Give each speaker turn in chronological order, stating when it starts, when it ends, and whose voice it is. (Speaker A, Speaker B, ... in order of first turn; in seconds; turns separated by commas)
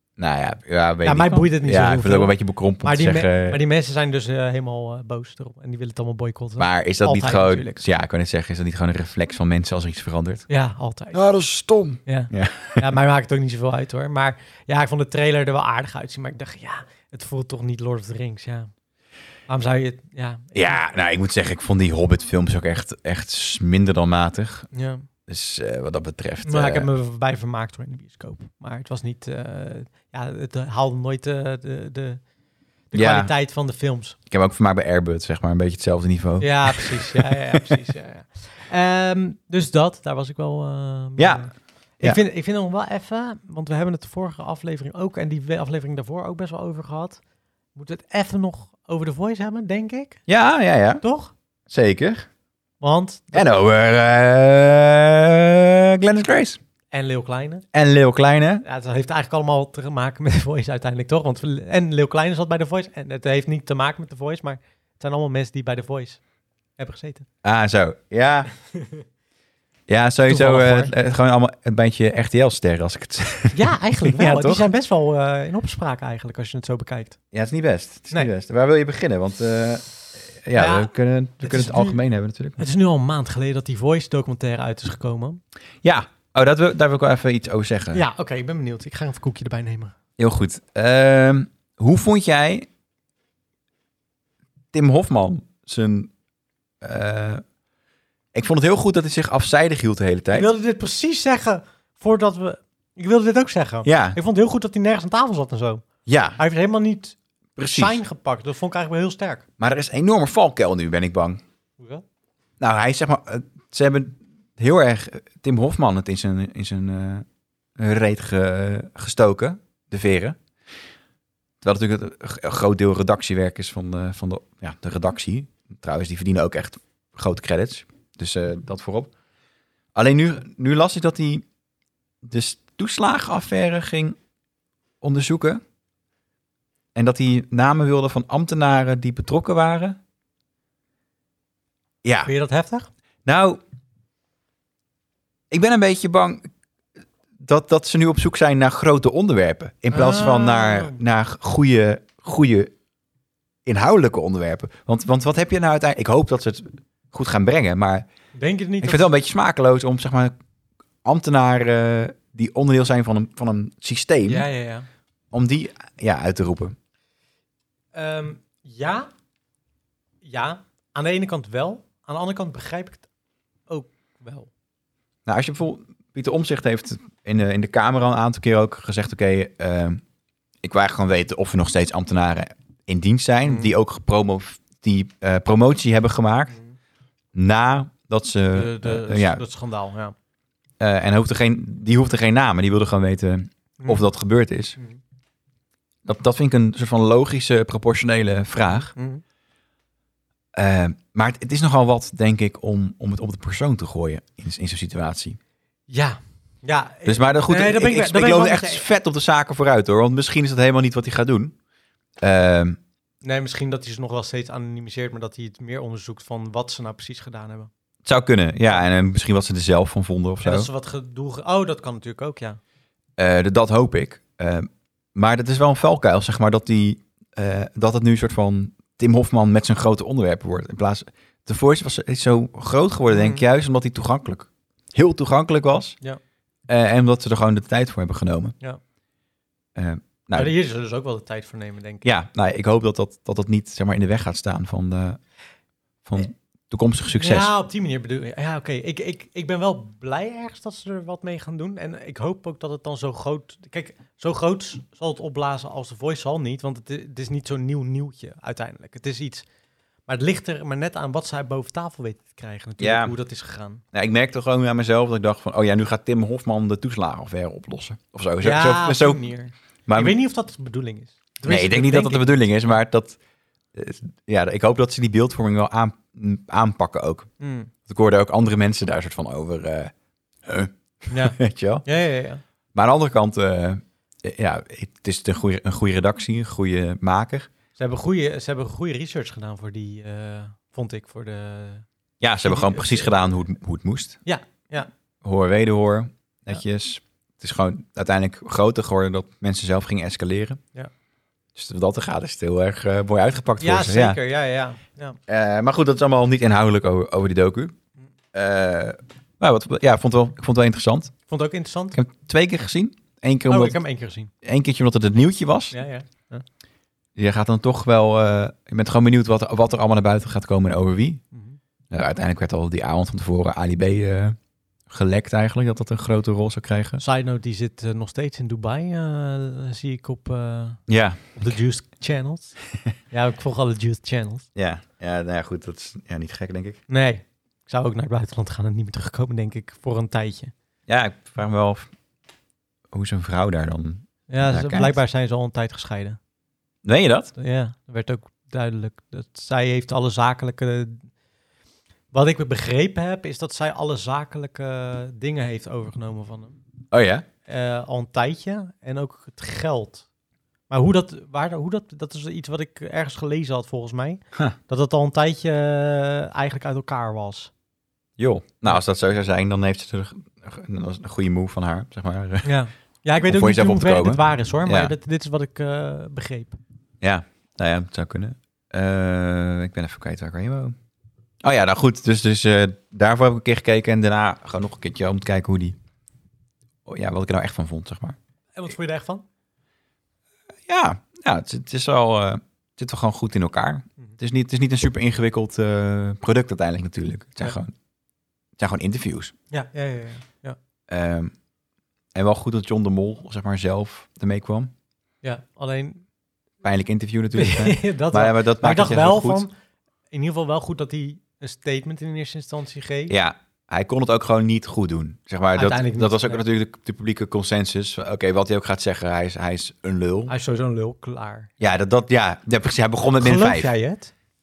Speaker A: 0.2-3.6, Speaker B: 1.0-7.8, Speaker A: 6.6-10.4, Speaker B: 10.5-11.2, Speaker A: 11.1-12.8, Speaker B: 12.1-18.7, Speaker B: 19.5-20.8, Speaker A: 20.5-24.7, Speaker B: 24.7-25.1, Speaker A: 25.3-26.9, Speaker B: 26.4-32.2, Speaker B: 32.9-34.1, Speaker A: 32.9-33.3, Speaker A: 34.3-37.6, Speaker B: 36.4-47.2, Speaker A: 41.2-41.5, Speaker B: 47.8-50.2, Speaker A: 50.3-51.0, Speaker B: 51.0-51.3, Speaker A: 51.7-52.3, Speaker B: 52.8-53.6, Speaker A: 53.3-56.6, Speaker B: 56.9-57.6, Speaker A: 57.7-58.6, Speaker B: 58.6-66.2, Speaker B: 66.8-67.3, Speaker A: 67.4-68.5, Speaker B: 68.7-69.0, Speaker A: 69.9-74.7, Speaker B: 70.2-70.9, Speaker B: 73.5-77.2, Speaker A: 77.3-82.6, Speaker B: 80.5-82.0, Speaker B: 82.6-85.4, Speaker A: 85.8-88.0, Speaker B: 87.9-89.9, Speaker A: 90.2-92.7, Speaker A: 94.7-96.1, Speaker A: 96.8-97.4, Speaker A: 98.3-100.5, Speaker B: 100.3-105.8, Speaker A: 103.8-104.2, Speaker A: 106.0-106.4, Speaker B: 106.4-109.4, Speaker A: 107.6-108.0, Speaker A: 109.6-111.4, Speaker B: 111.8-112.0, Speaker A: 112.6-117.2, Speaker A: 117.8-120.4, Speaker A: 121.6-129.1, Speaker A: 129.9-131.4, Speaker A: 132.2-134.2, Speaker A: 135.0-135.6, Speaker A: 136.9-140.0, Speaker A: 142.0-142.3, Speaker B: 142.2-142.9, Speaker A: 143.2-143.6, Speaker A: 145.5-146.5, Speaker A: 147.4-152.7, Speaker B: 149.9-151.0, Speaker A: 153.7-158.1, Speaker B: 158.3-159.1, Speaker A: 158.8-160.3, Speaker A: 161.0-164.4, Speaker B: 164.2-164.9, Speaker A: 165.3-166.7, Speaker B: 167.9-169.1, Speaker B: 170.2-173.0, Speaker B: 173.7-174.5, Speaker A: 175.2-180.0, Speaker A: 180.6-186.6, Speaker B: 183.4-183.7, Speaker A: 187.3-189.4, Speaker B: 188.5-190.1, Speaker A: 190.8-194.8, Speaker B: 193.8-194.0, Speaker A: 196.0-198.9, Speaker B: 198.7-199.2, Speaker A: 200.5-205.4, Speaker B: 205.9-208.8, Speaker A: 207.0-211.5, Speaker A: 212.2-212.8, Speaker B: 213.2-217.7, Speaker A: 218.0-220.7, Speaker B: 220.4-222.6, Speaker A: 223.2-236.0, Speaker B: 233.1-233.4, Speaker A: 236.7-238.5, Speaker A: 239.8-240.5, Speaker B: 240.3-242.1, Speaker A: 242.0-245.2, Speaker A: 246.0-247.5, Speaker B: 247.2-259.4, Speaker B: 260.1-263.8, Speaker A: 262.8-263.1, Speaker A: 263.9-269.3, Speaker B: 268.4-272.3, Speaker A: 269.9-270.1, Speaker A: 271.4-273.2, Speaker A: 273.7-277.3, Speaker B: 277.4-277.7, Speaker A: 277.9-279.9, Speaker A: 280.4-281.8, Speaker B: 281.1-282.4, Speaker A: 282.7-287.5, Speaker B: 287.8-291.8, Speaker A: 292.2-294.2, Speaker B: 292.4-293.1, Speaker B: 294.2-294.9, Speaker A: 295.2-300.6, Speaker A: 301.5-304.2, Speaker B: 303.6-305.2, Speaker A: 305.3-307.8, Speaker A: 308.3-311.1, Speaker B: 311.3-312.0, Speaker A: 311.9-313.8, Speaker B: 313.5-314.3, Speaker A: 314.4-315.8, Speaker B: 315.7-316.4, Speaker A: 317.1-321.2, Speaker B: 321.3-321.6, Speaker A: 321.9-324.4, Speaker A: 324.9-327.0, Speaker B: 327.0-330.8, Speaker A: 330.9-331.3, Speaker B: 331.3-332.6, Speaker B: 333.1-334.4, Speaker A: 334.5-336.8, Speaker B: 336.9-340.5, Speaker A: 340.9-341.9, Speaker A: 342.9-345.0, Speaker B: 344.3-346.2, Speaker A: 346.8-347.3, Speaker B: 347.4-351.1, Speaker B: 352.1-356.6, Speaker A: 356.9-357.2, Speaker B: 357.4-360.0, Speaker B: 360.7-367.5, Speaker A: 368.2-372.5, Speaker B: 372.4-376.6, Speaker A: 373.2-374.9, Speaker A: 377.0-380.7, Speaker A: 381.4-385.8, Speaker A: 386.9-388.1, Speaker B: 388.5-389.2, Speaker A: 390.6-397.7, Speaker A: 398.6-399.3, Speaker B: 399.5-400.6, Speaker A: 400.9-401.3, Speaker A: 402.1-404.7, Speaker B: 405.2-406.0, Speaker A: 406.6-409.4, Speaker B: 407.3-409.5, Speaker B: 410.1-413.1, Speaker A: 413.1-420.3, Speaker B: 415.6-416.4, Speaker B: 420.3-421.5, Speaker A: 421.6-423.7, Speaker B: 423.2-424.1